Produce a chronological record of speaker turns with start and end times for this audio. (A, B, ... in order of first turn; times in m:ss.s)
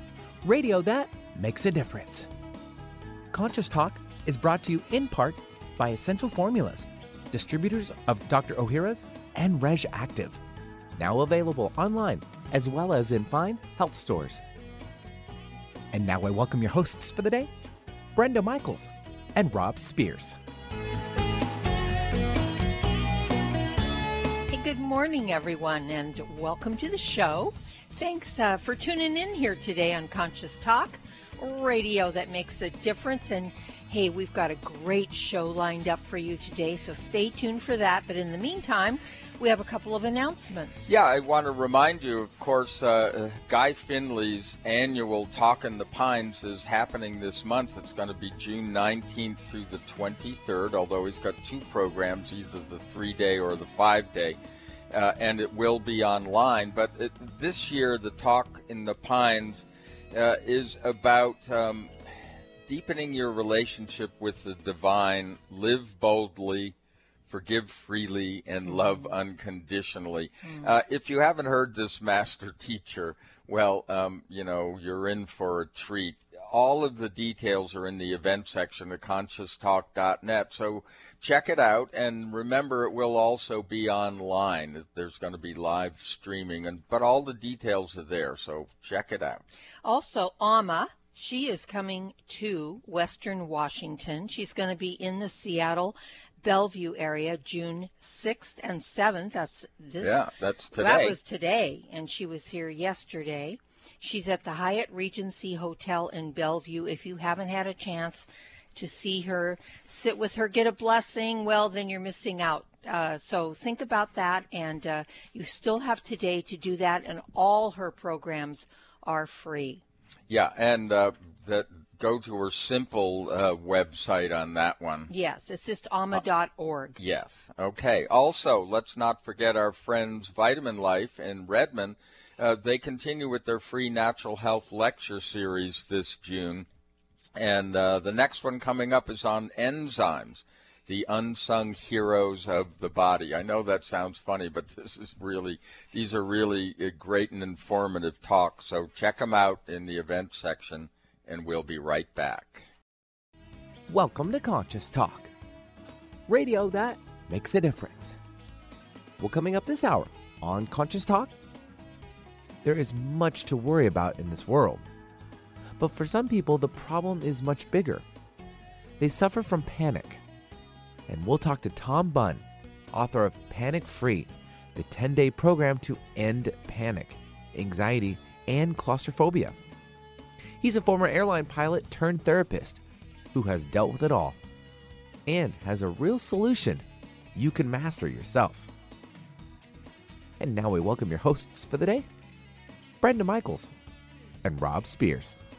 0:00.4-0:02.3 A
0:03.3-0:10.4 A
0:11.0-0:14.4 A
0:15.9-0:17.5 A
0:18.1-0:20.4 A
0:24.5-0:40.9 B
0:40.8-0:54.4 C
0:54.9-1:01.9 C
1:02.6-1:06.7 C
1:07.3-1:29.4 C
1:08.7-1:09.1 B
1:10.4-1:10.7 B
1:29.8-1:40.2 B
1:40.0-1:41.2 C
1:40.8-1:59.8 B
2:00.3-2:05.1 C
2:05.1-2:07.0 B
2:07.0-2:16.7 C
2:17.4-2:32.7 C
2:33.9-2:35.3 A
2:36.3-2:38.2 A
2:39.2-2:41.3 A
2:42.6-2:44.8 A
2:45.8-2:48.0 A
2:49.0-2:50.2 A
2:51.1-2:59.5 A
3:00.6-3:02.8 A
3:03.3-3:04.4 A
3:05.2-3:06.8 A
3:07.3-3:08.7 A
3:10.4-3:12.0 A
3:13.0-3:13.7 A
3:14.4-3:15.4 A